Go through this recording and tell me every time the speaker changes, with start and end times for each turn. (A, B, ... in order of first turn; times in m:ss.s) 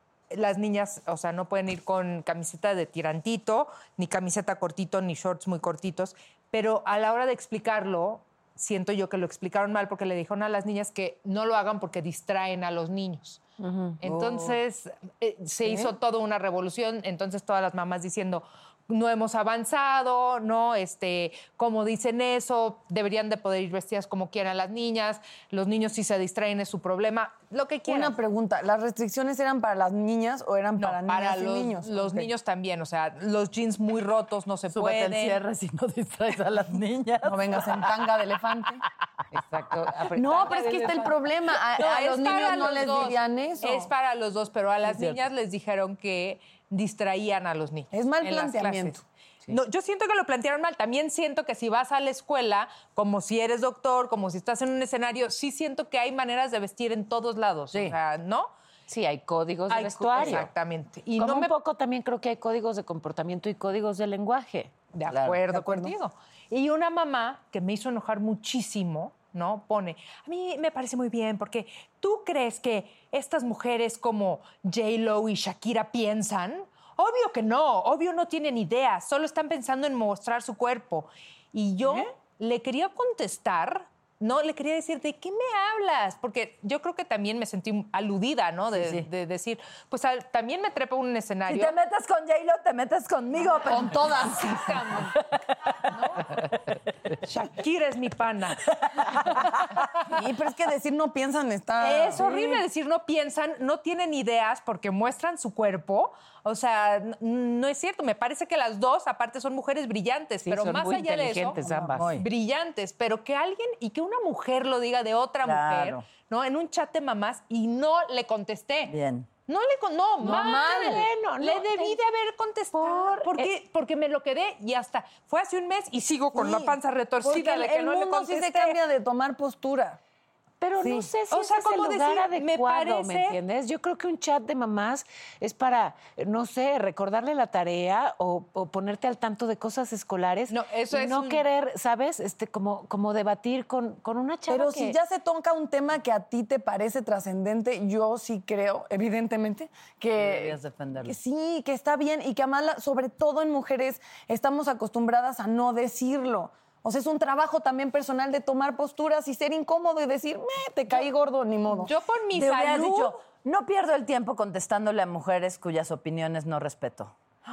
0:00.3-0:13.4 A
0:13.6-0:13.9 B
0:14.0-0:28.2 A
0:27.9-0:32.3 B
0:30.8-0:35.4 A
0:34.7-0:38.1 C
0:37.2-0:38.8 B
0:39.3-0:41.1 D
0:40.1-0:43.9 B
0:41.8-0:58.5 A
0:47.9-0:49.0 B
0:58.9-1:00.5 D
0:59.7-1:01.5 A
1:01.2-1:04.7 D
1:04.9-1:31.7 A
1:05.5-1:05.9 B
1:28.7-1:29.1 C
1:31.5-1:34.4 C
1:33.6-1:35.1 B
1:34.4-1:35.1 A
1:37.2-1:39.4 A
1:40.1-1:42.6 B
1:41.8-1:51.6 A
1:50.4-1:52.1 D
1:51.9-1:52.2 C
1:52.2-1:58.9 A
1:55.4-1:56.0 C
1:58.9-1:59.3 C
1:59.5-2:08.8 A
2:00.2-2:01.1 B
2:00.2-2:02.0 D
2:02.7-2:03.5 D
2:06.3-2:10.0 B
2:10.6-2:25.0 D
2:11.3-2:13.4 A
2:20.5-2:21.4 A
2:24.5-2:41.9 B
2:30.1-2:31.2 C
2:41.7-2:43.2 A
2:42.3-2:47.1 C